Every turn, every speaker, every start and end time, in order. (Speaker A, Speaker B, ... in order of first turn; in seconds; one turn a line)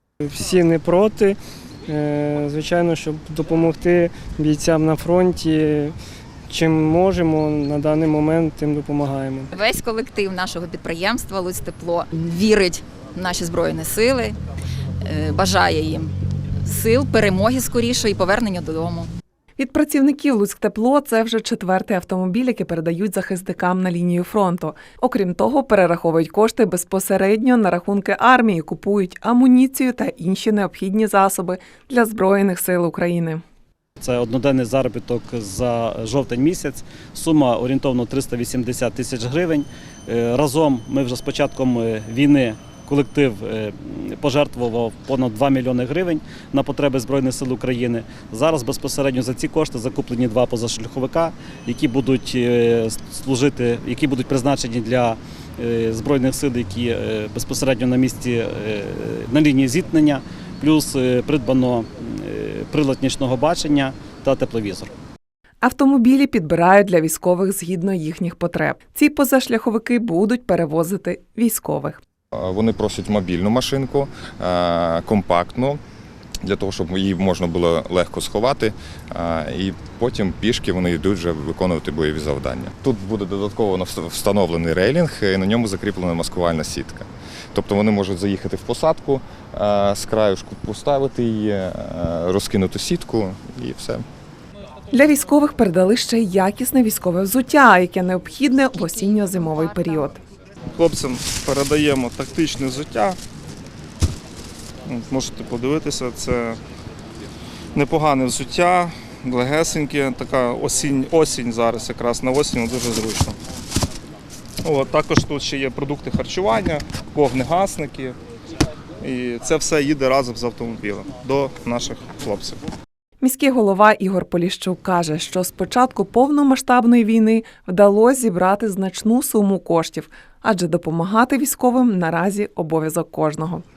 Speaker A: 0.2-5.9
Speaker A: 6.5-9.5
Speaker B: 9.5-14.4
Speaker B: 15.0-16.1
Speaker B: 16.6-19.1
Speaker C: 19.6-33.4
Speaker D: 34.0-64.9
Speaker C: 65.6-72.0
Speaker E: 72.3-75.8
Speaker E: 76.4-94.0
Speaker C: 94.9-100.2
Speaker B: 98.7-100.1
Speaker F: 100.8-103.2
Speaker F: 104.8-106.6
Speaker F: 107.7-113.4
Speaker F: 114.6-118.2
Speaker F: 119.0-122.6
Speaker C: 123.2-133.6